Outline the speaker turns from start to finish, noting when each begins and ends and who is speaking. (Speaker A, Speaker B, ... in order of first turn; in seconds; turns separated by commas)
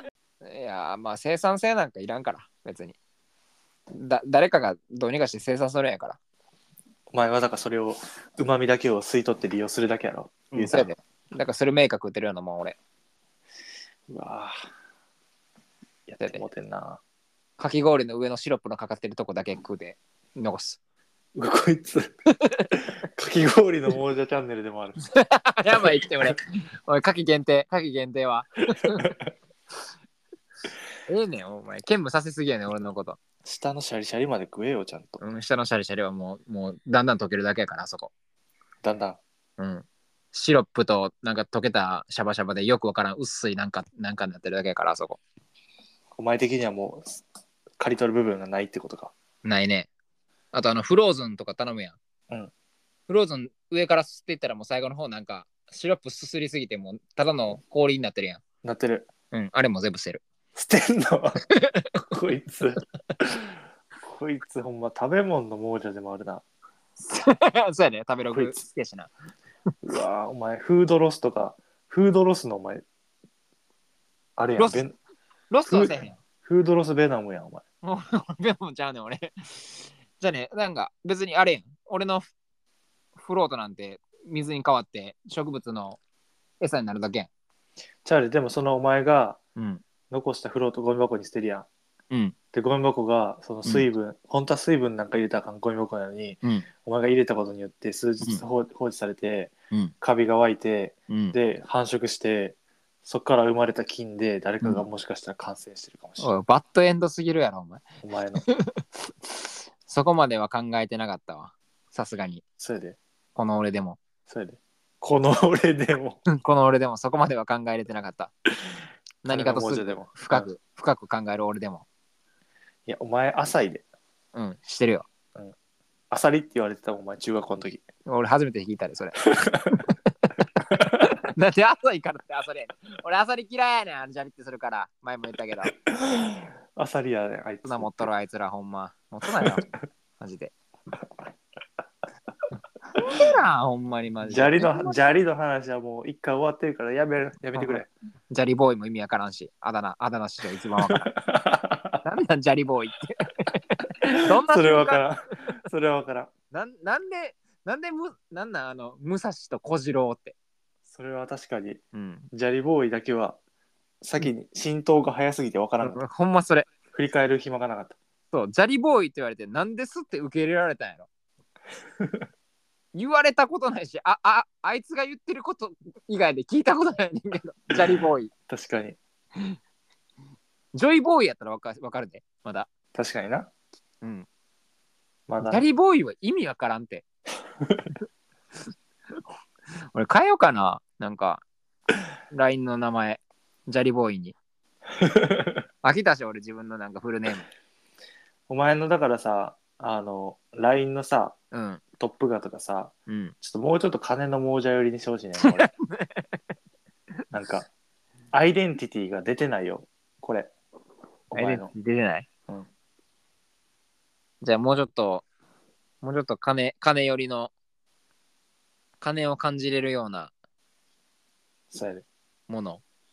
Speaker A: 0.4-3.0, Speaker A: 3.9-6.2, Speaker B: 7.1-10.9, Speaker A: 10.5-12.8, Speaker B: 14.1-14.6, Speaker B: 16.1-17.0, Speaker A: 16.2-16.4, Speaker A: 17.6-20.8, Speaker B: 21.4-22.1, Speaker B: 22.7-25.0, Speaker A: 25.1-29.1, Speaker B: 25.8-26.3, Speaker B: 29.0-29.2, Speaker A: 31.1-33.2, Speaker B: 33.5-35.2, Speaker A: 35.2-38.1, Speaker B: 38.8-39.2, Speaker A: 39.6-45.2, Speaker B: 46.1-47.2, Speaker B: 47.8-49.1, Speaker A: 49.4-49.9, Speaker A: 50.5-52.0, Speaker A: 53.1-58.4, Speaker B: 58.6-59.1, Speaker A: 59.3-60.2, Speaker B: 60.5-61.4, Speaker A: 61.6-61.9, Speaker B: 62.1-63.5, Speaker B: 64.0-66.5, Speaker A: 67.0-69.1, Speaker B: 68.3-68.6, Speaker B: 69.9-72.8, Speaker B: 74.4-75.0, Speaker A: 74.6-74.8, Speaker A: 75.5-76.2, Speaker B: 75.7-77.6, Speaker A: 77.8-82.3, Speaker A: 83.2-86.0, Speaker A: 86.6-87.3, Speaker B: 88.0-89.4, Speaker A: 89.6-89.8, Speaker B: 90.1-91.7, Speaker A: 92.1-92.4, Speaker B: 92.5-106.3, Speaker A: 101.1-101.4, Speaker A: 106.2-107.8, Speaker B: 108.0-108.5, Speaker A: 108.5-108.8, Speaker A: 109.8-112.4, Speaker B: 112.6-113.0, Speaker A: 113.3-114.0, Speaker B: 114.3-116.2, Speaker A: 116.3-118.3, Speaker A: 119.2-121.9, Speaker B: 119.3-120.5, Speaker B: 122.9-123.9, Speaker A: 124.3-125.1, Speaker B: 126.1-127.8, Speaker A: 128.1-129.9, Speaker A: 131.0-135.7, Speaker B: 135.9-138.1, Speaker A: 137.6-139.7, Speaker B: 139.4-139.7, Speaker A: 140.2-140.5, Speaker A: 142.9-145.1, Speaker B: 144.2-147.9, Speaker A: 147.6-151.1, Speaker B: 150.8-152.0, Speaker A: 152.0-155.1, Speaker B: 154.4-156.3, Speaker A: 156.5-160.3, Speaker B: 160.9-161.8, Speaker A: 161.9-162.3, Speaker B: 162.3-163.4, Speaker B: 164.0-166.0, Speaker A: 165.8-166.7, Speaker B: 166.9-168.0, Speaker A: 168.3-171.1, Speaker B: 172.0-172.3, Speaker A: 172.9-178.3, Speaker B: 177.8-179.0, Speaker A: 180.7-182.7, Speaker B: 182.9-183.5, Speaker A: 184.0-184.3, Speaker B: 185.3-185.7, Speaker A: 185.4-187.1, Speaker B: 187.6-187.9, Speaker A: 189.9-191.4, Speaker A: 192.3-194.4, Speaker B: 195.0-195.6, Speaker A: 195.8-197.5, Speaker B: 198.5-201.4, Speaker A: 201.5-201.8, Speaker B: 202.0-205.7, Speaker A: 203.1-203.3, Speaker A: 205.4-206.3, Speaker B: 207.3-207.7, Speaker B: 208.3-210.5, Speaker B: 211.3-211.7, Speaker A: 211.3-212.3, Speaker A: 214.4-215.3, Speaker A: 216.0-217.5, Speaker A: 219.0-220.3, Speaker B: 221.7-222.1, Speaker A: 222.5-222.8